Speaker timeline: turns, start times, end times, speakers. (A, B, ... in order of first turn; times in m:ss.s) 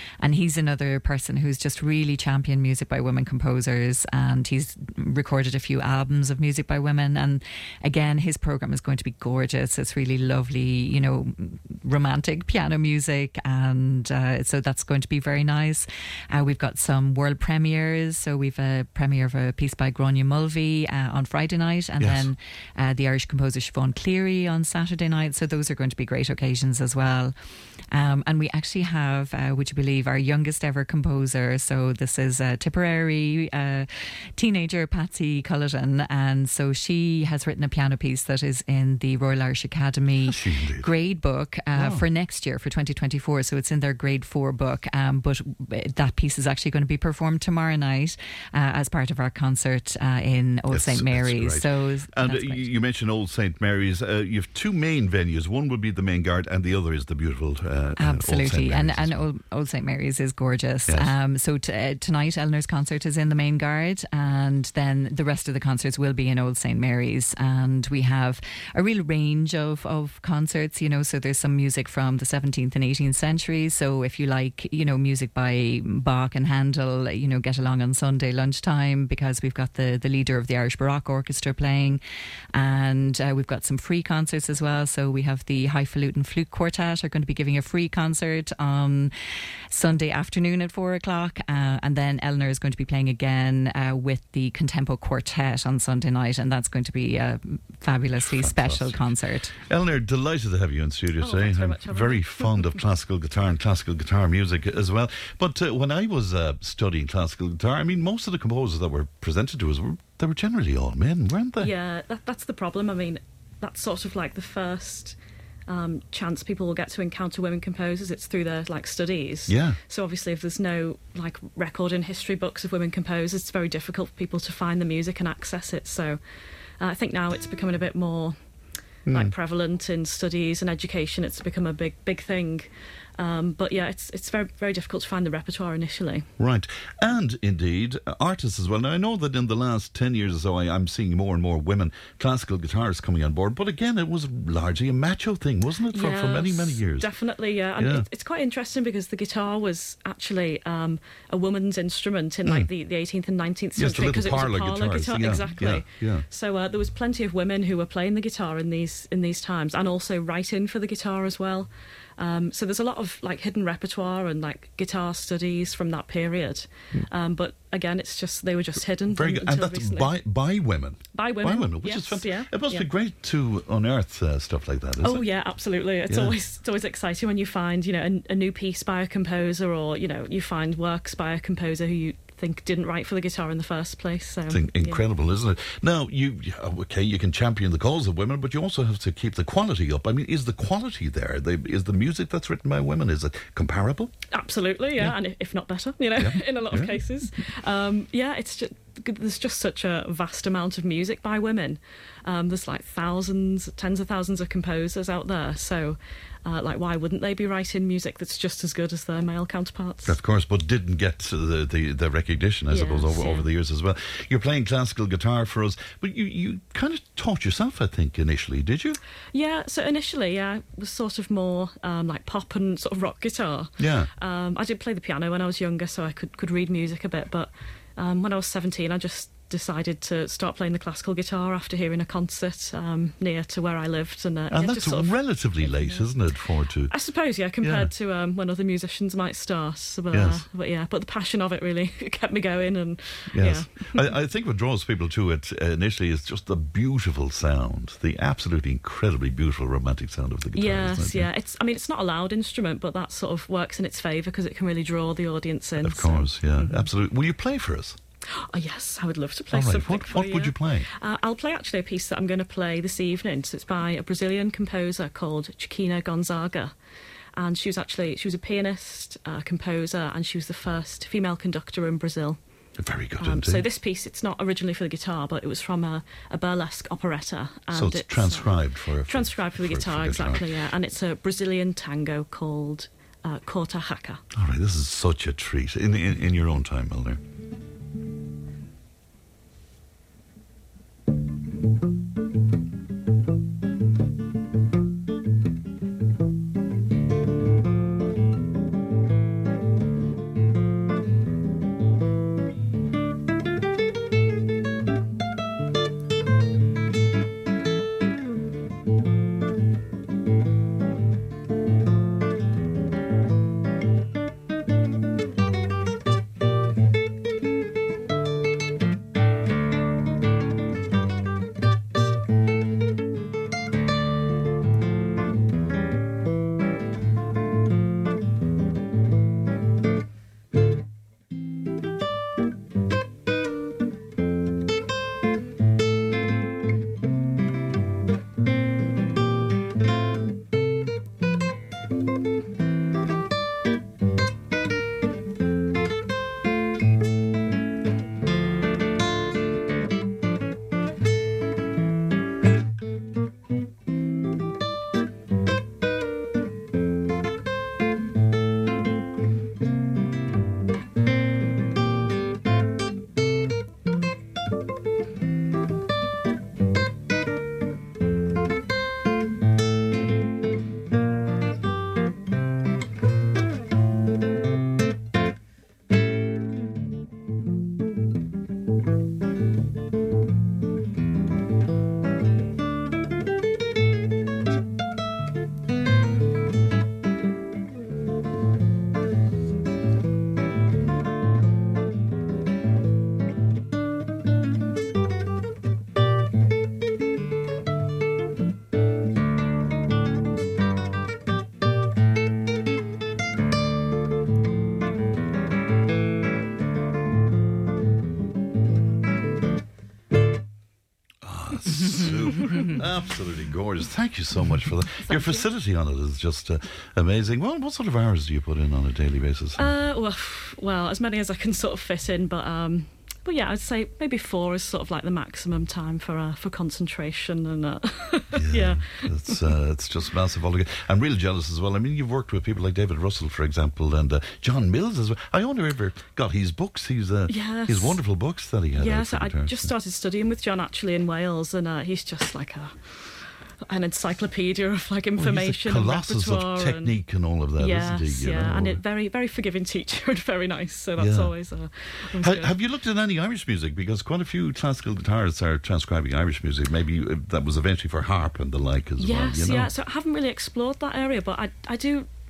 0:00.2-0:27.3 A
0:22.0-0:22.3 B
0:27.9-0:52.7 A
0:40.2-0:40.9 B
0:41.7-0:42.1 B
0:50.7-0:59.2 B
0:58.0-1:22.0 A
1:00.9-1:01.1 B
1:22.5-1:29.1 A
1:29.7-1:39.5 A
1:38.1-1:39.1 B
1:39.7-1:51.7 B
1:41.2-1:42.7 C
1:51.6-2:06.2 C
1:59.5-1:59.8 B
2:06.8-2:08.4 C
2:09.1-2:09.3 B
2:09.1-2:16.2 C
2:16.4-2:27.1 B
2:25.9-2:50.1 C
2:27.8-2:28.1 B
2:33.8-2:36.2 B
2:49.1-2:55.2 B
2:51.1-2:52.9 C
2:55.0-3:05.0 C
2:56.1-2:56.4 B
3:04.5-3:14.1 B
3:14.3-3:30.2 C
3:16.2-3:17.0 B
3:30.0-3:39.0 B
3:32.7-3:33.5 C
3:39.3-3:56.1 C
3:43.8-3:44.1 B
3:54.5-3:56.9 B
3:56.9-4:04.1 C
3:57.5-3:57.9 B
4:00.1-4:00.4 B
4:03.3-4:11.3 B
4:10.6-4:16.9 C
4:15.8-4:18.0 B
4:18.3-4:26.7 C
4:19.5-4:20.9 B
4:27.4-4:32.4 C
4:32.8-4:33.6 B
4:33.2-4:44.2 C
4:37.7-4:40.5 B
4:44.3-4:47.2 B
6:51.2-6:59.7 B
6:55.0-6:55.4 C
6:59.6-7:09.4 C
7:08.3-7:19.7 B
7:17.3-7:18.0 C
7:18.7-7:27.0 C
7:25.2-7:28.8 B
7:27.6-7:32.6 C
7:31.0-7:31.3 B
7:32.2-7:39.7 B
7:39.0-7:42.1 C